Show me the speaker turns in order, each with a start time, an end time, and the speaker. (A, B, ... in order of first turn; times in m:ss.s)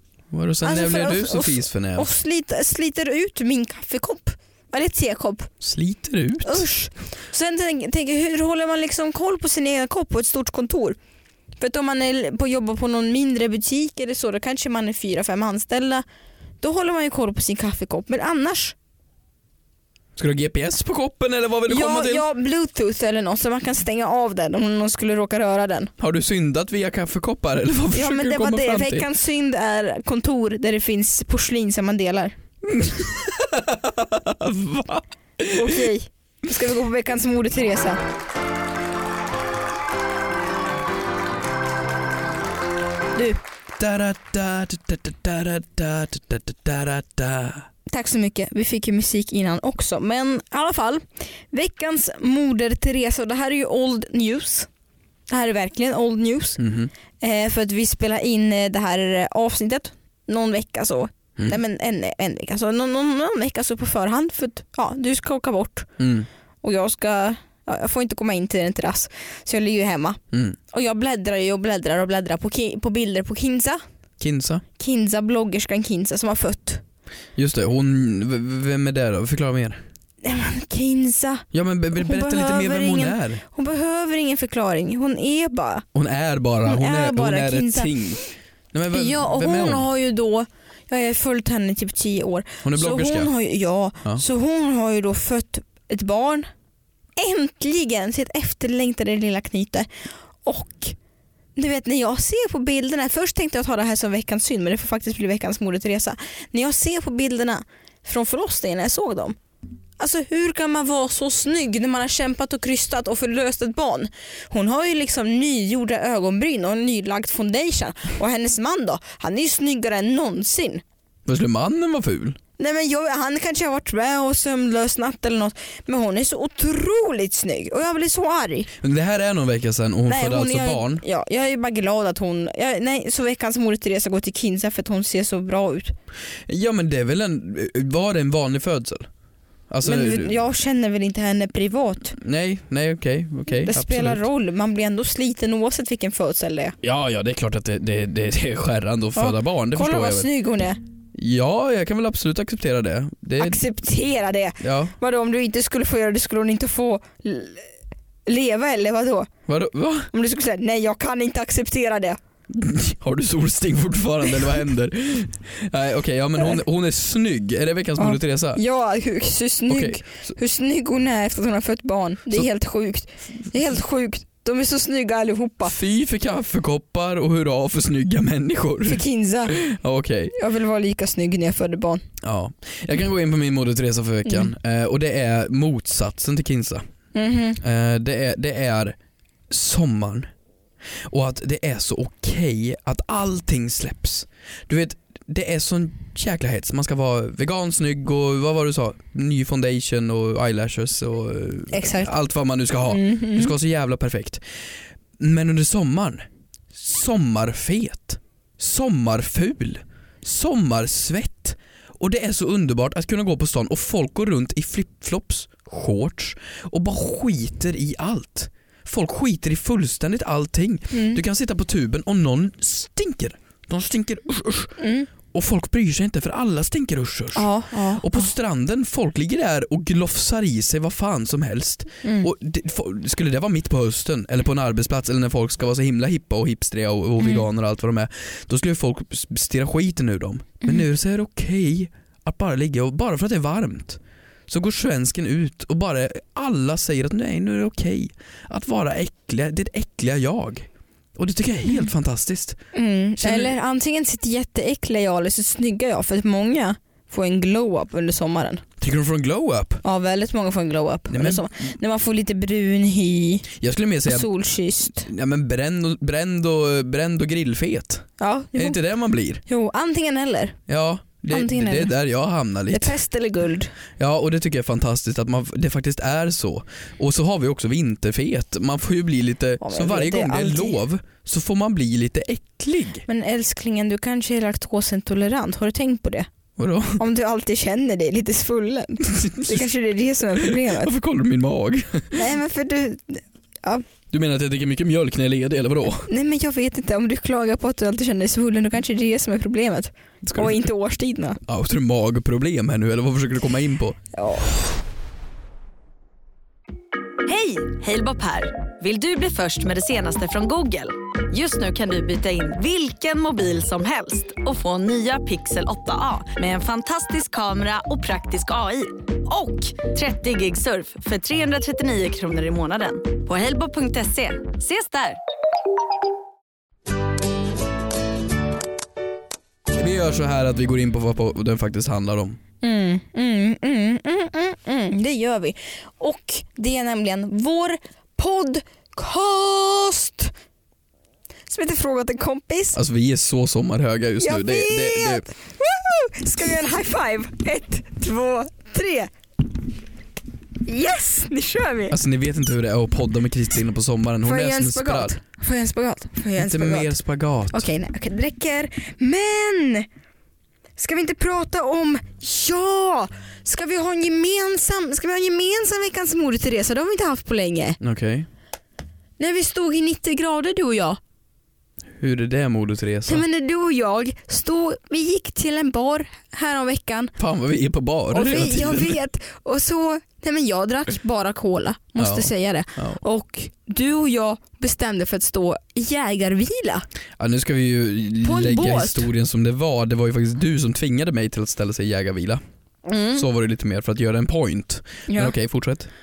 0:00.3-0:02.1 A
0:00.6-0:05.5 B
0:05.6-0:06.6 A
0:06.4-0:11.0 B
0:11.6-0:16.0 B
0:16.6-0:18.8 B
0:20.2-0:22.2 A
0:21.7-0:25.9 B
0:26.0-0:29.1 A
0:27.9-0:32.4 B
0:32.6-0:35.9 A
0:35.5-0:38.0 B
0:43.8-0:47.7 A
0:47.9-0:54.7 B
0:55.3-0:56.6 B
0:56.6-0:56.9 A
0:57.2-1:05.9 B
1:06.0-1:06.3 A
1:06.6-1:10.2 B
1:10.3-1:10.6 A
1:10.7-1:13.8 B
1:14.2-1:14.6 A
1:14.8-1:16.8 B
1:17.4-1:19.8 A
1:20.2-1:25.9 B
1:21.5-1:23.4 A
1:26.0-1:29.9 A
1:26.6-1:27.9 B
1:28.9-1:36.5 B
1:32.6-1:33.3 A
1:37.2-1:39.9 B
1:40.4-1:41.0 B
1:41.6-1:49.4 B
1:50.0-2:00.8 B
2:01.2-2:02.4 A
2:02.6-2:08.7 B
2:08.8-2:11.0 A
2:10.1-2:15.9 B
2:16.5-2:19.1 A
2:19.7-2:20.4 A
2:19.8-2:22.2 B
2:22.2-2:24.2 A
2:23.5-2:26.8 B
2:26.8-2:30.3 A
2:29.2-2:30.8 B
2:31.1-2:33.6 A
2:33.4-2:37.7 B
2:34.6-2:34.9 A
2:38.2-2:39.3 B
2:39.5-2:40.1 A
2:40.1-2:42.2 B
2:42.5-2:48.6 A
2:48.0-2:55.8 B
2:49.7-2:50.3 A
2:55.6-3:00.3 A
2:58.9-2:59.6 B
3:00.3-3:02.0 B
3:02.2-3:06.8 A
3:07.1-3:07.6 B
3:07.6-3:09.0 A
3:09.5-3:10.3 A
3:11.1-3:24.4 A
3:21.7-3:22.1 B
3:22.9-3:23.5 B
3:25.2-3:44.8 A
3:40.9-3:41.2 B
3:44.8-3:45.1 B
3:45.3-4:12.6 A
3:47.4-3:48.3 B
3:52.0-3:52.3 B
3:57.2-3:57.5 B
4:12.7-4:18.6 B
4:13.2-4:13.5 A
4:18.8-4:19.8 A
4:19.8-4:23.5 B
4:21.1-4:21.5 A
4:23.6-4:24.3 A
4:24.1-4:25.1 B
4:24.9-4:29.4 A
4:28.2-4:28.8 B
4:29.5-4:30.6 B
4:30.7-4:33.0 A
4:31.3-4:31.9 B
4:32.7-4:33.7 B
4:34.0-4:43.0 A
4:39.6-4:40.8 B
4:43.1-4:46.3 B
4:46.6-4:47.0 A
4:47.0-4:50.9 B
4:49.0-4:49.7 A
4:50.4-4:52.3 A
4:52.1-4:53.8 B
4:54.1-4:56.1 A
4:56.1-5:01.4 B
5:00.2-5:00.6 A
5:01.4-5:04.0 A
5:04.1-5:04.5 B
5:07.2-5:25.2 C
5:29.7-5:32.4 A
5:32.6-5:40.3 B
5:41.5-5:42.8 B
5:42.8-5:45.2 A
5:44.2-5:49.1 B
5:50.6-5:52.0 B
5:51.9-5:55.2 A
5:54.2-5:57.0 B
5:56.4-5:57.6 A
5:57.5-5:59.9 B
6:00.8-6:07.8 B
6:07.8-6:08.3 A
6:09.2-6:11.0 B
6:12.0-6:13.2 A
6:13.1-6:17.1 B
6:17.2-6:19.0 A
6:18.1-6:26.8 B
6:22.0-6:23.0 A
6:27.2-6:32.4 A
6:28.2-6:29.1 B
6:32.9-6:33.2 B
6:33.1-6:35.9 A
6:35.1-6:35.3 B